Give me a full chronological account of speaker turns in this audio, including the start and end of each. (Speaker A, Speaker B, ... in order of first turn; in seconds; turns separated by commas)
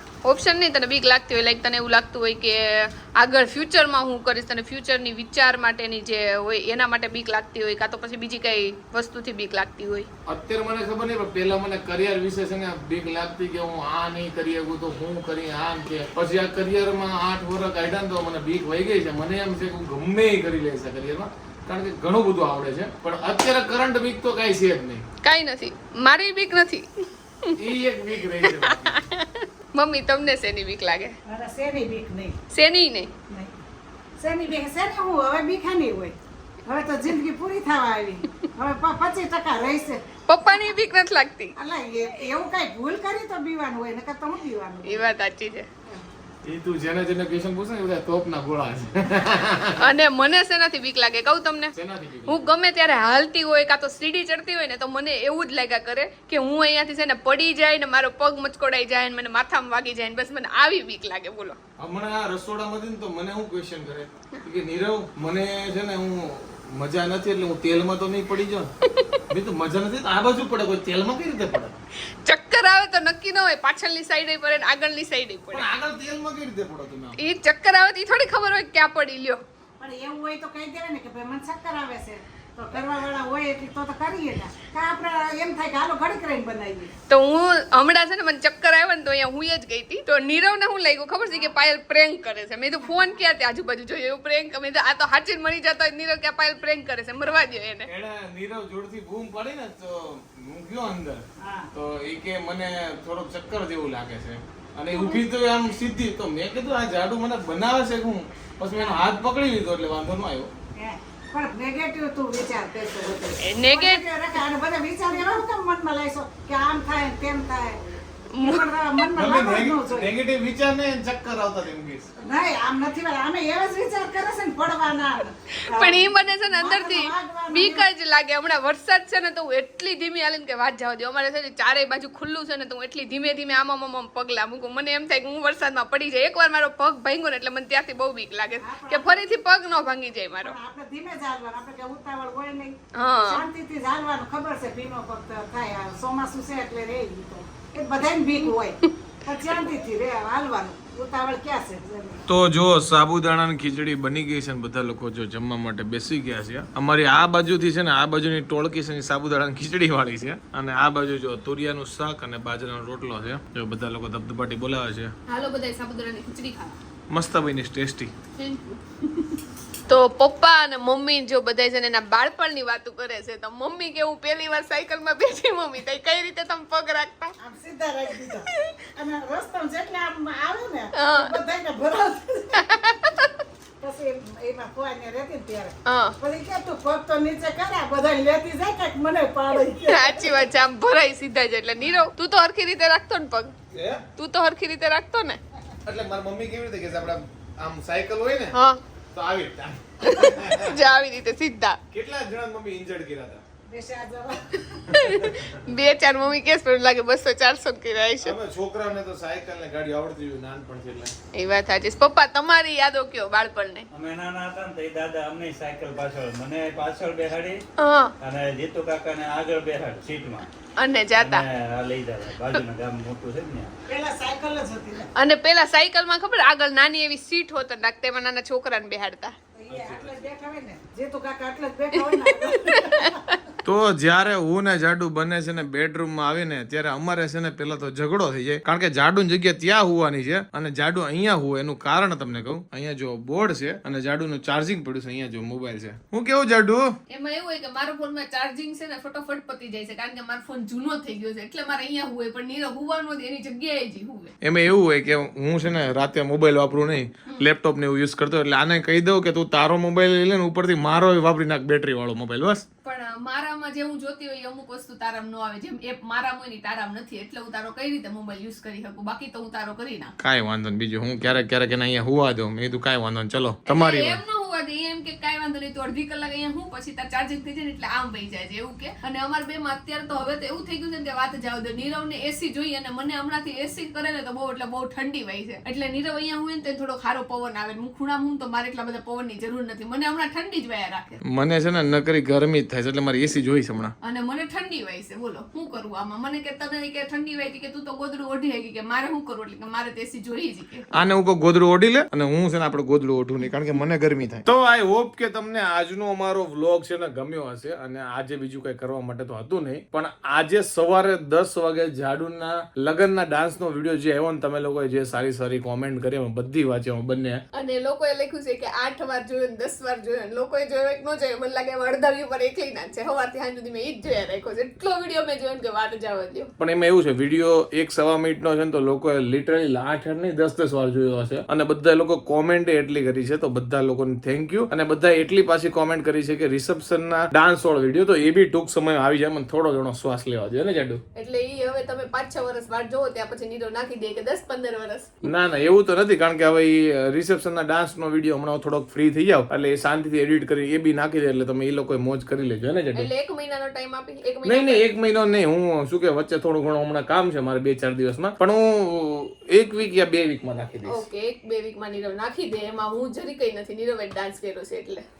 Speaker A: 0.2-10.1, Speaker B: 10.3-25.0, Speaker A: 25.2-27.5, Speaker B: 27.6-28.9, Speaker A: 28.4-31.1, Speaker C: 31.2-32.4, Speaker A: 32.5-33.1, Speaker C: 33.3-33.6, Speaker C: 34.2-40.0, Speaker A: 40.2-41.5, Speaker C: 41.6-45.1, Speaker A: 44.8-45.7, Speaker B: 46.4-49.8, Speaker A: 49.8-51.7, Speaker B: 51.7-52.5, Speaker A: 52.3-61.6, Speaker B: 61.8-68.7, Speaker A: 68.8-69.2, Speaker B: 69.3-71.8, Speaker A: 72.2-75.7, Speaker B: 75.5-77.2, Speaker A: 77.2-79.4, Speaker C: 79.8-86.9, Speaker A: 87.1-97.9, Speaker B: 97.9-110.5, Speaker C: 101.4-101.7, Speaker A: 104.9-105.2, Speaker C: 110.8-117.8, Speaker A: 113.4-114.1, Speaker A: 118.3-118.7, Speaker C: 118.4-120.1, Speaker B: 119.1-122.1, Speaker C: 122.2-127.8, Speaker A: 125.5-140.5, Speaker C: 138.6-139.3, Speaker C: 140.3-152.2, Speaker A: 142.9-143.5, Speaker A: 148.4-148.9, Speaker B: 152.3-165.1, Speaker A: 165.3-166.8, Speaker B: 167.1-168.1, Speaker A: 168.3-177.3, Speaker C: 177.4-182.7, Speaker A: 180.9-181.4, Speaker A: 182.6-183.4, Speaker C: 183.8-190.4, Speaker A: 185.8-186.2, Speaker A: 189.8-193.5, Speaker B: 193.7-194.0, Speaker A: 194.2-195.4, Speaker B: 195.8-198.5, Speaker A: 198.5-198.8, Speaker B: 199.1-200.7, Speaker A: 200.0-201.8, Speaker B: 201.9-203.4, Speaker C: 203.7-204.8, Speaker A: 204.9-208.3, Speaker B: 205.1-205.4, Speaker B: 208.2-211.1, Speaker A: 211.3-213.9, Speaker D: 213.9-217.6, Speaker A: 217.8-218.1, Speaker D: 218.2-220.5, Speaker A: 220.8-221.4, Speaker D: 221.1-223.7, Speaker C: 223.9-225.1, Speaker A: 225.2-229.3, Speaker C: 229.6-233.2, Speaker B: 229.7-230.2, Speaker A: 232.1-233.4, Speaker B: 233.6-246.9, Speaker A: 247.1-254.3, Speaker B: 254.4-262.6, Speaker A: 262.8-270.1, Speaker B: 270.2-274.2, Speaker A: 273.6-291.2, Speaker B: 291.2-293.9, Speaker A: 294.0-300.9, Speaker B: 300.9-317.4, Speaker A: 317.5-326.5, Speaker B: 326.6-341.0, Speaker A: 341.1-345.2, Speaker B: 345.2-353.1, Speaker A: 352.9-354.9, Speaker B: 354.4-361.0, Speaker A: 360.9-365.0